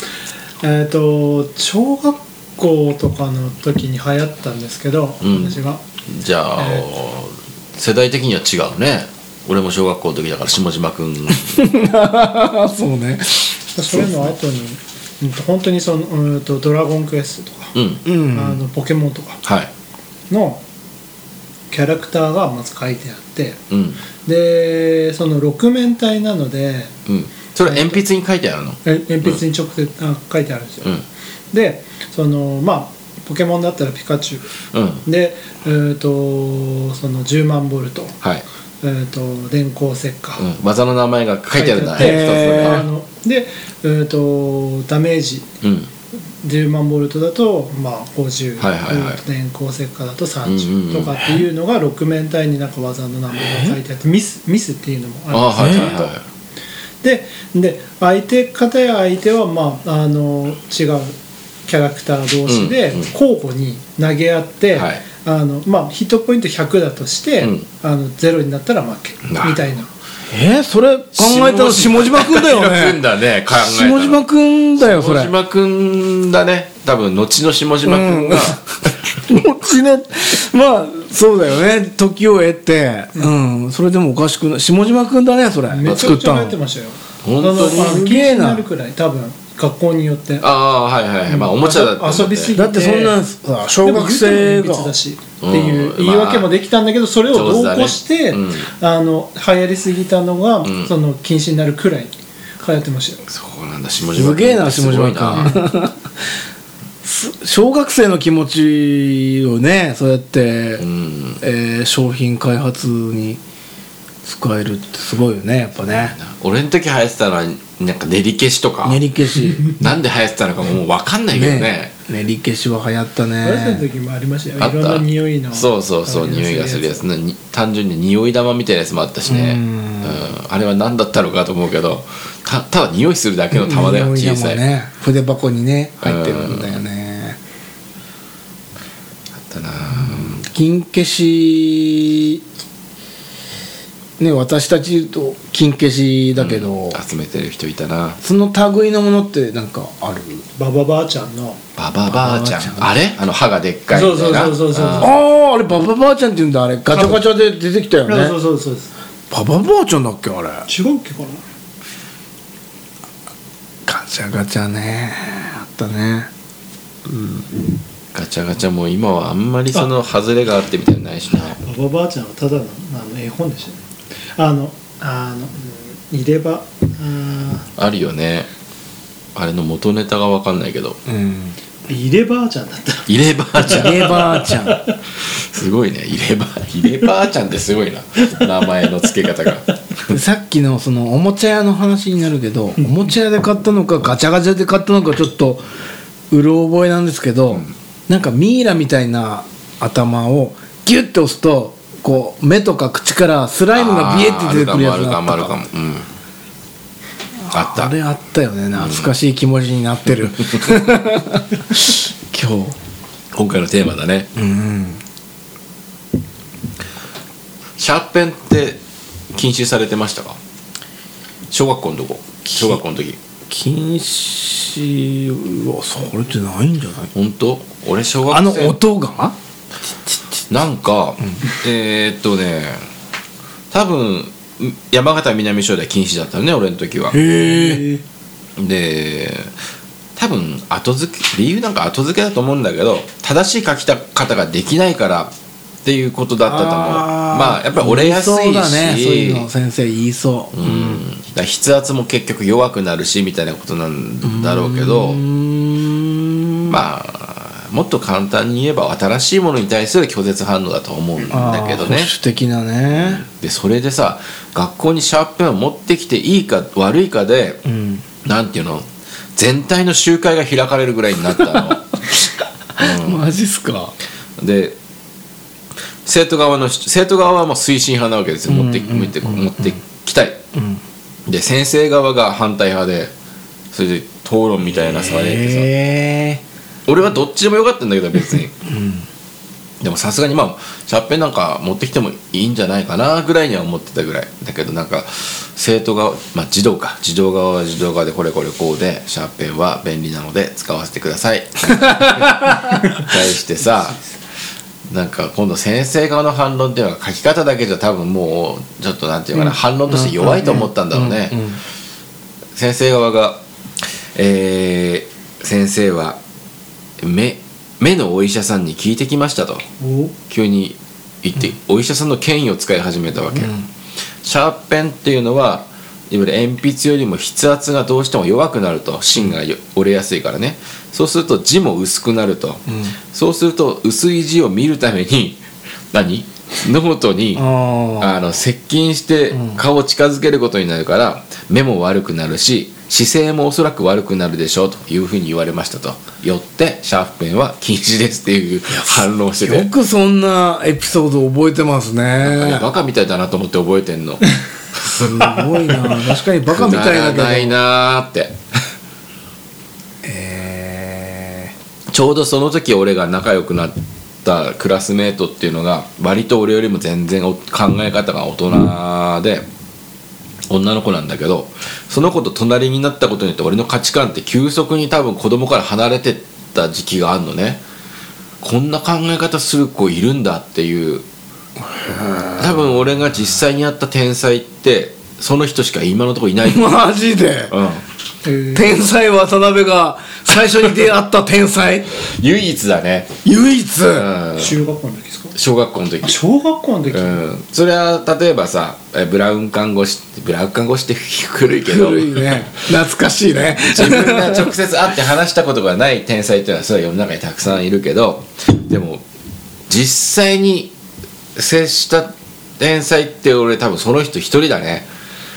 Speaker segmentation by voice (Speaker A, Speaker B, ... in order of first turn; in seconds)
Speaker A: 0.6-5.8, 6.6-6.8, 13.7-17.7, 18.3-19.4, 20.3-20.6, 21.7-23.6, 24.2-26.9, 27.7-28.0, 28.8-30.9, 31.5-34.5, 35.0-38.2, 38.8-40.5, 41.6-45.5, 46.4-56.1, 57.0-61.1, 61.7-69.9, 85.7-90.5, 91.3-93.2, 93.8-103.2, 123.4-127.0, 150.6-151.6, 153.9-155.2, 156.9-157.2, 158.1-158.9, 160.7-161.4, 171.5-173.8, 174.4-177.7, 181.9-183.1, 183.6-185.0, 237.3-238.0, 319.8-320.1, 388.2-388.8, 394.4-395.3, 396.0-397.2
Speaker B: 5.2-11.7, 17.7-18.0, 19.4-19.7, 23.7-24.0, 27.1-29.4, 34.7-35.0, 40.4-42.8, 45.6-45.9, 48.6-49.2, 50.5-51.2, 55.3-56.2, 62.5-63.1, 64.7-65.0, 67.4-67.7, 69.3-69.6, 71.1-78.6, 85.9-86.2, 87.2-88.0, 90.4-92.6, 95.4-96.5, 97.3-98.7, 100.6-100.9, 103.3-105.6, 110.8-111.4, 115.9-119.0, 119.7-121.9, 124.6-134.6, 136.0-136.8, 139.4-140.4, 146.4-148.2, 151.8-155.2, 168.1-171.6, 177.8-178.5, 179.3-181.0, 183.1-184.1, 185.2-190.1, 203.7-206.1, 207.5-207.9, 208.8-209.1, 213.3-214.3, 217.8-218.8, 219.3-220.4, 221.5-223.2, 227.1-228.8, 230.5-232.8, 233.7-237.2, 238.6-239.5, 240.2-245.3, 245.8-249.5, 250.5-255.2, 256.7-262.1, 263.0-267.6, 268.2-271.8, 272.8-273.2, 274.4-274.8, 276.1-280.4, 281.3-283.1, 283.7-285.7, 286.9-288.6, 289.8-304.0, 304.9-311.4, 312.6-313.4, 314.1-316.2, 317.0-319.6, 320.3-323.5, 324.2-337.5, 338.0-349.7, 352.2-355.1, 356.4-358.4, 361.9-369.4, 370.5-377.6, 378.4-381.1, 382.4-386.7, 387.5-387.8, 392.0-393.1, 393.9-394.6, 395.3-396.2, 396.9-402.6, 403.7-409.0, 409.7-410.7, 411.4-414.9
Speaker C: 11.4-13.6, 18.1-18.6, 42.0-42.9, 53.4-53.8, 55.6-55.9, 70.3-73.0, 73.5-75.3, 77.8-86.6, 87.4-88.6, 92.5-94.9, 104.1-106.0, 107.0-110.8, 111.4-113.4, 114.2-116.2, 118.8-119.7, 121.3-123.8, 129.3-130.2, 133.5-137.4, 139.9-142.4, 144.2-147.0, 148.2-150.4, 152.1-152.9, 154.9-158.3, 159.3-160.7, 163.9-166.3, 181.1-181.6, 183.6-184.8, 190.1-195.7, 196.3-205.5, 207.4-212.8, 214.4-215.0, 222.5-222.8, 223.5-227.1, 228.3-229.3, 237.1-237.9, 246.5-251.0, 254.2-256.8, 261.3-263.3, 267.6-268.0, 271.3-273.9, 278.5-279.8, 280.5-280.8, 284.8-286.4, 288.6-289.1, 301.7-302.7, 309.3-311.6, 323.3-323.7, 337.3-338.2, 339.3-339.6, 348.7-352.7, 354.9-357.6, 360.0-361.5, 381.7-382.7, 386.4-387.5, 388.5-392.0, 393.2-394.1, 401.5-404.5